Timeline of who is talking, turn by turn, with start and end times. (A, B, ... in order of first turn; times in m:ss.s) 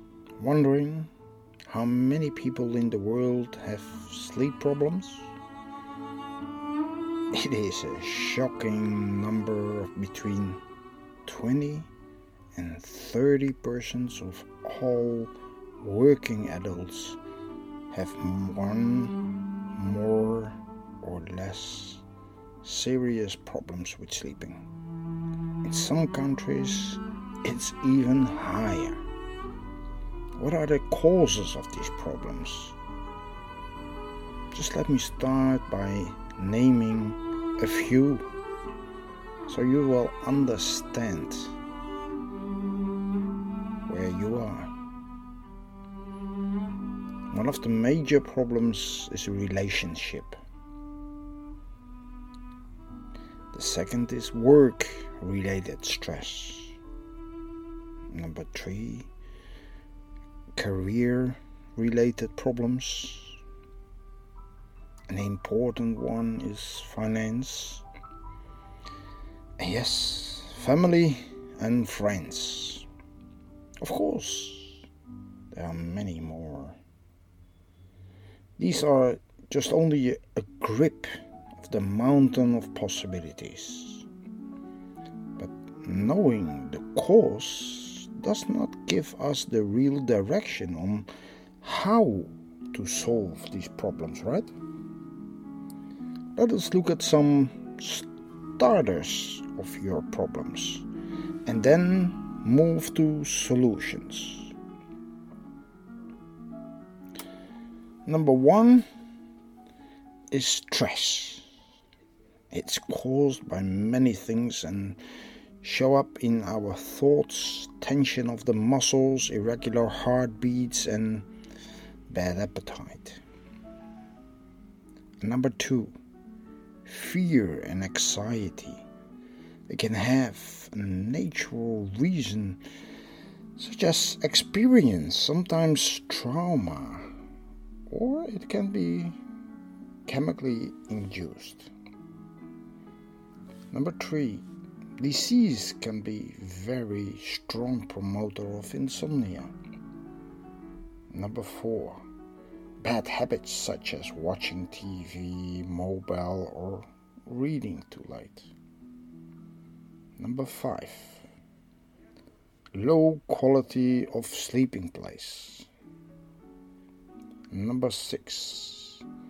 0:00.4-0:01.1 A
0:01.6-0:05.3 A
0:07.3-0:10.6 A
0:11.2-0:11.9 A
0:12.5-0:17.2 A
0:17.9-0:19.2 A
0:19.7-0:22.0 A
0:22.6-0:24.6 A
0:25.6-0:29.0 A
0:30.4-0:32.8 A
0:34.5-0:38.2 A
0:39.5-0:41.5 A
0:43.8-0:44.7 A
0:47.3-0:50.4 A
0:53.5-0:56.8 A
0:58.1-0:59.1 A
1:00.6-1:03.4 A
1:05.1-1:07.8 A
1:09.6-1:12.8 A
1:13.8-1:14.9 A
1:15.5-1:16.8 A
1:18.6-1:24.0 A
1:25.4-1:31.1 A
1:31.6-1:34.5 A
1:36.4-1:40.8 A
1:41.4-1:44.5 A
1:48.0-1:48.8 A
1:50.3-1:51.4 A
1:52.5-1:55.0 A
1:55.6-2:01.2 A
2:02.1-2:03.2 A
2:05.2-2:05.9 A
2:06.8-2:08.8 A
2:09.7-2:12.6 A
2:13.6-2:17.1 A
2:17.9-2:19.2 A
2:20.0-2:21.7 A
2:23.7-2:24.4 A
2:25.0-2:29.5 A
2:31.1-2:32.0 A
2:32.8-2:38.5 A
2:40.2-2:41.3 A
2:42.7-2:45.7 A
2:47.5-2:49.0 A